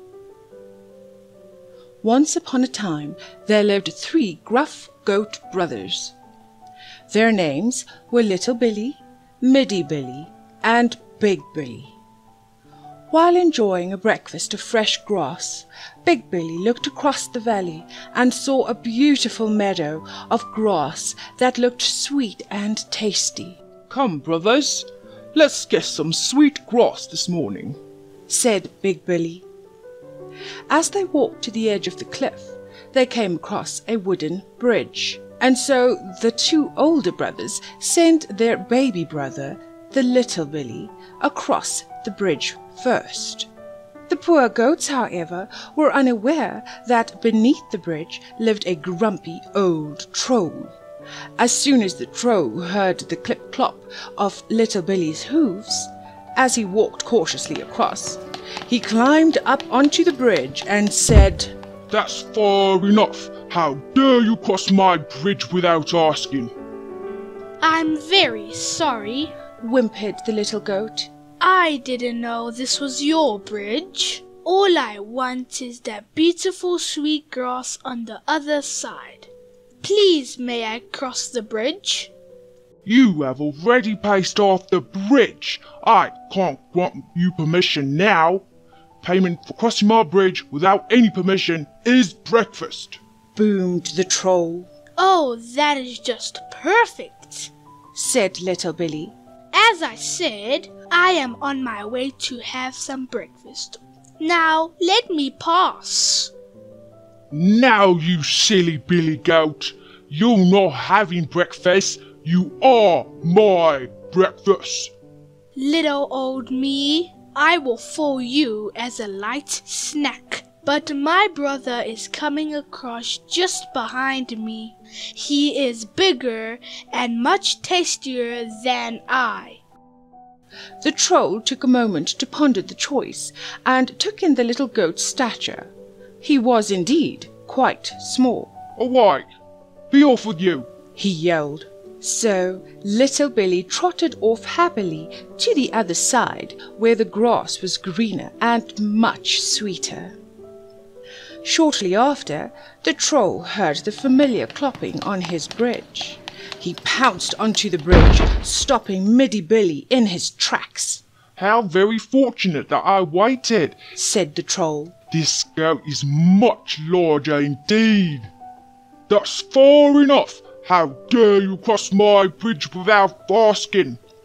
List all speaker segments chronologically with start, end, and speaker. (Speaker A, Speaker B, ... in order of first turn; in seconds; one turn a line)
Speaker A: 2.0-6.1
Speaker A: 7.1-11.9
Speaker A: 13.1-24.6
Speaker B: 23.9-24.8
Speaker B: 25.3-27.8
Speaker A: 28.3-29.4
Speaker A: 30.7-43.5
Speaker A: 44.1-50.7
Speaker A: 51.4-61.5
Speaker B: 61.9-66.5
Speaker C: 67.6-69.3
Speaker A: 69.6-71.1
Speaker C: 71.4-79.3
Speaker C: 79.8-82.1
Speaker B: 82.8-88.4
Speaker B: 89.0-93.0
Speaker A: 93.3-94.7
Speaker C: 95.0-97.5
Speaker A: 97.9-99.2
Speaker C: 99.5-106.3
Speaker B: 107.3-114.9
Speaker C: 115.5-129.6
Speaker A: 130.8-138.5
Speaker B: 138.8-139.2
Speaker B: 139.9-140.7
Speaker A: 140.9-150.2
Speaker A: 151.4-161.0
Speaker B: 161.3-163.8
Speaker A: 163.9-164.9
Speaker B: 165.1-168.3
Speaker B: 169.1-174.0